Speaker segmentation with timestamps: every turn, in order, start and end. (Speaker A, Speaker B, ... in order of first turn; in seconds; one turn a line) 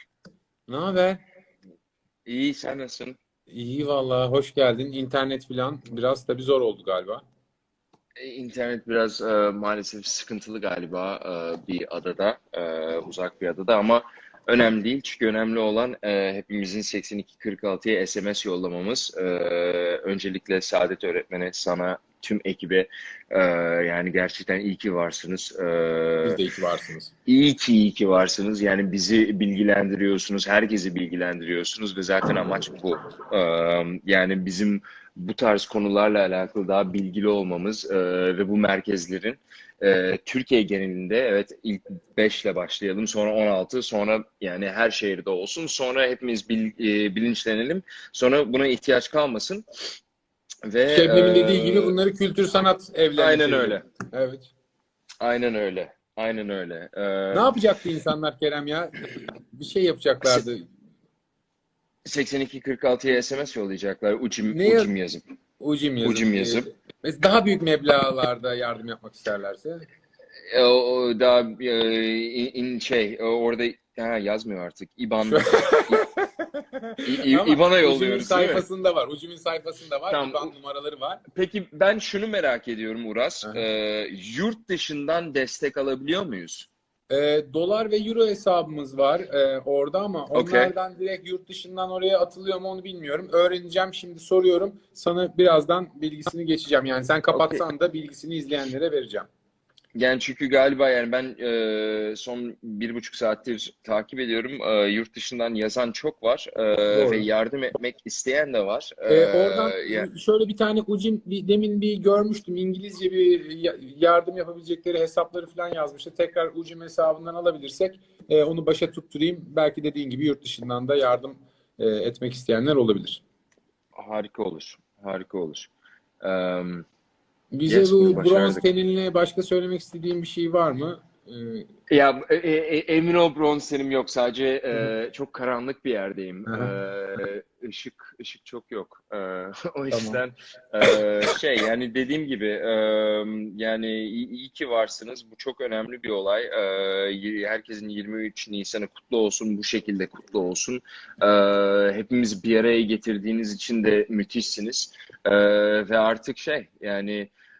Speaker A: 0.7-1.2
Speaker B: 2.2-3.2
Speaker A: 3.5-7.2
Speaker B: 8.2-26.4
Speaker A: 26.2-27.1
Speaker B: 27.3-49.6
Speaker B: 50.7-52.0
Speaker A: 50.9-54.5
Speaker B: 53.1-53.8
Speaker B: 55.2-57.5
Speaker A: 57.3-60.6
Speaker B: 62.0-65.2
Speaker A: 64.5-64.9
Speaker A: 65.6-69.8
Speaker B: 66.0-66.7
Speaker B: 70.5-76.0
Speaker A: 75.2-81.2
Speaker B: 77.0-78.6
Speaker B: 80.1-80.5
Speaker B: 81.3-86.7
Speaker A: 87.1-99.3
Speaker B: 90.3-90.7
Speaker B: 97.3-97.6
Speaker B: 100.0-110.1
Speaker A: 106.9-107.2
Speaker A: 109.1-123.2
Speaker B: 124.0-125.7
Speaker B: 126.2-126.8
Speaker A: 127.5-131.7
Speaker B: 127.7-128.7
Speaker B: 131.9-157.3
Speaker A: 136.5-136.7
Speaker A: 139.9-140.2